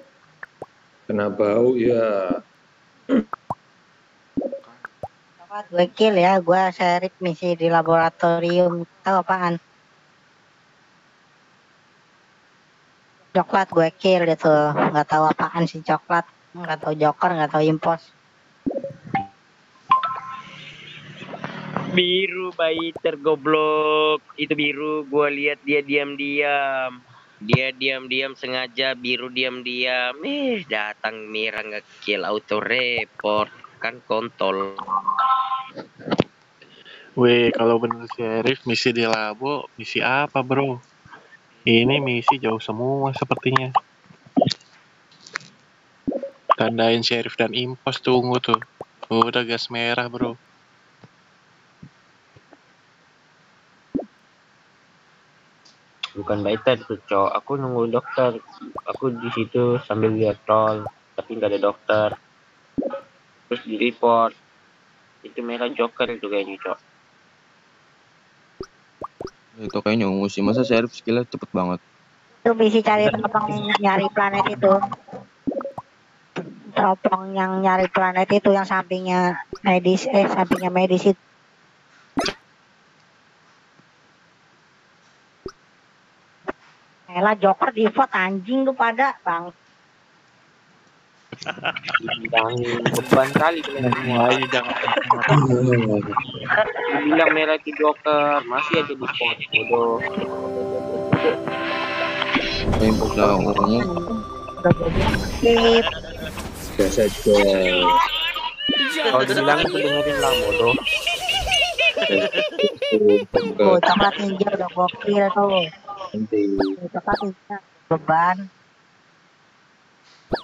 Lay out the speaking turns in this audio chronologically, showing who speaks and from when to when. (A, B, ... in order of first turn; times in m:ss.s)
0:01.1-0:02.3 A
0:05.5-0:09.6 B
0:13.4-0:18.0 B
0:22.0-0:26.9 C
0:27.5-0:34.8 C
0:37.2-0:40.8 D
0:41.7-0:43.7 D
0:46.6-0:48.6 D
0:49.1-0:50.4 D
0:56.2-0:57.9 C
0:56.6-0:58.2 E
0:59.0-1:02.1 E
1:03.6-1:04.2 E
1:05.4-1:06.7 E
1:09.6-1:11.8 F
1:12.5-1:14.7 B
1:16.8-1:21.2 B
1:27.1-1:29.5 B
1:32.3-1:34.1 C
1:33.0-1:34.2 E
1:33.9-1:35.5 D
1:37.1-1:38.0 E
1:37.4-1:37.8 C
1:38.6-1:39.6 C
1:38.7-1:39.7 E
1:42.8-1:43.9 F
1:43.8-1:44.1 B
1:44.6-1:45.8 B
1:46.8-1:47.9 A
1:49.1-1:50.7 E
1:52.8-1:53.8 A
1:53.5-1:55.6 B
1:56.1-1:56.7 A
1:56.8-1:58.4 B